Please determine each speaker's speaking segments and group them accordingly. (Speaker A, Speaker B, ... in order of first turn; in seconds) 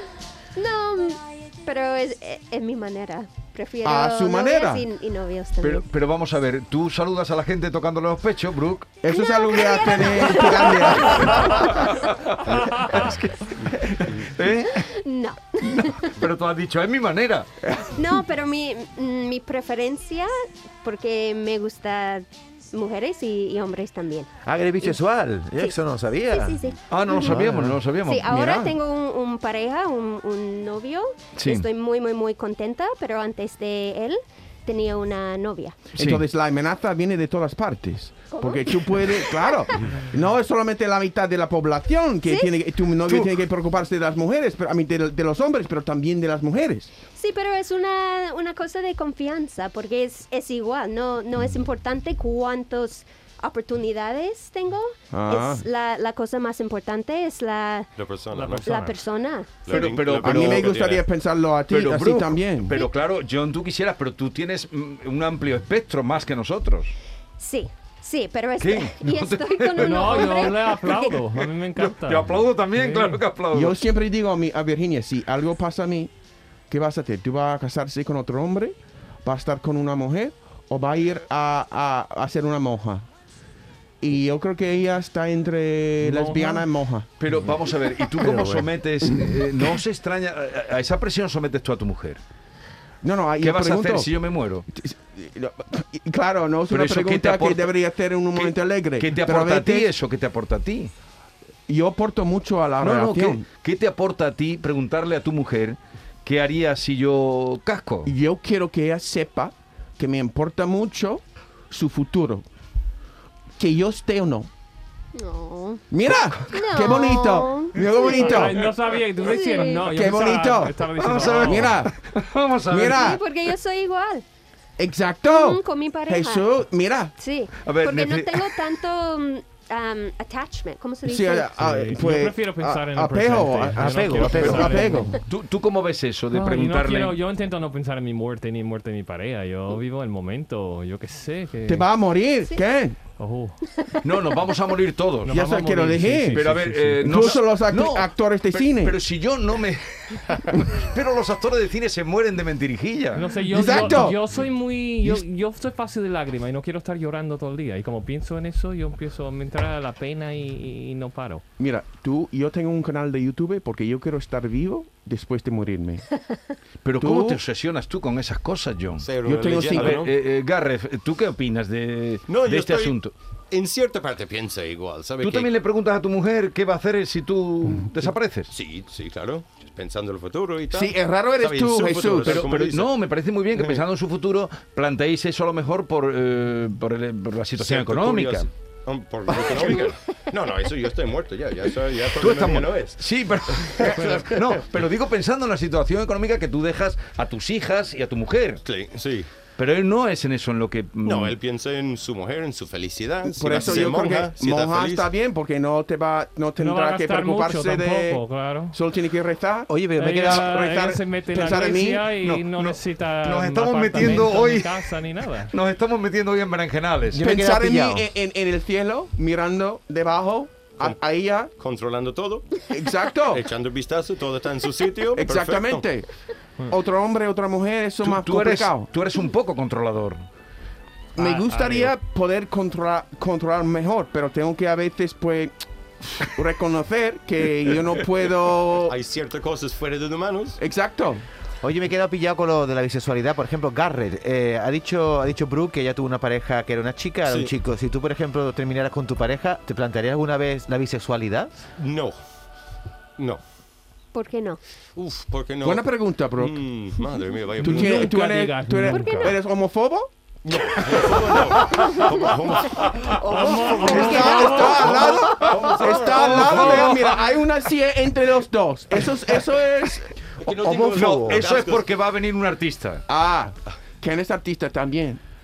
Speaker A: 0.5-5.8, 9.1-12.0, 14.7-16.1, 17.9-25.0, 26.3-27.4, 28.0-35.8, 38.3-39.9, 42.2-42.5, 47.1-57.9, 58.6-59.6, 67.4-71.3, 115.1-115.8, 116.5-118.4, 119.2-120.0, 122.9-124.2, 125.3-126.5, 127.2-131.6, 143.8-144.5, 254.1-254.6, 258.9-259.4
Speaker B: 3.8-4.8, 9.0-11.8, 36.0-46.9, 55.1-55.6, 60.2-62.8, 73.5-76.1, 76.7-83.1, 84.0-87.1, 88.2-89.3, 93.0-94.1, 94.7-99.9, 101.7-103.4, 108.1-112.4, 113.6-114.5, 115.9-118.7, 119.8-121.9, 122.7-123.2, 124.8-127.1, 131.1-135.2, 141.7-143.0, 145.3-146.4, 147.0-149.0, 153.4-154.2, 161.6-166.0, 167.0-167.4, 169.2-170.0, 180.7-182.4, 203.2-209.7, 210.2-212.1, 217.2-221.5, 222.7-223.4, 225.2-226.1, 226.7-228.9, 231.2-235.5, 236.2-238.9, 240.6-241.2, 255.6-256.6, 257.6-260.1, 263.8-270.1, 273.1-275.2
Speaker C: 5.6-8.9, 11.1-14.9, 15.7-17.5, 26.9-28.8, 31.4-31.7, 36.0-36.2, 43.1-43.3, 59.7-61.0, 61.7-66.9, 68.6-70.6, 71.8-73.8, 87.2-92.2, 93.4-94.7, 96.7-97.7, 98.3-100.9, 102.8-108.1, 121.0-123.1, 127.7-128.6, 134.3-137.2, 144.0-145.4, 146.3-153.9, 166.8-173.1, 175.2-178.5, 182.1-188.5, 189.3-189.9, 192.1-198.6, 199.6-201.4, 212.2-214.9, 215.5-217.2, 228.0-230.2, 264.9-267.2, 270.9-273.1
Speaker D: 12.5-13.1, 58.3-59.0, 69.8-73.2, 86.0-86.6, 118.1-121.7, 131.6-135.2, 136.3-141.8, 143.2-143.6, 145.2-147.3, 153.1-161.4, 193.9-194.2, 206.6-208.8, 210.0-215.5, 231.2-231.9, 257.6-259.3, 263.2-264.9
Speaker E: 24.4-27.8, 133.8-134.8, 209.7-210.4, 217.1-218.1, 241.6-251.5, 270.6-271.5
Speaker F: 57.9-58.7, 59.6-61.0, 169.0-170.1, 172.3-173.0, 173.5-175.5, 178.5-182.9, 183.5-183.8, 187.6-193.0, 193.5-194.6, 198.7-199.3, 201.0-205.1, 221.5-222.5, 223.3-225.9, 238.8-240.6, 247.2-247.5, 251.8-252.2, 253.2-253.4, 254.9-258.1, 260.4-266.9, 270.4-271.9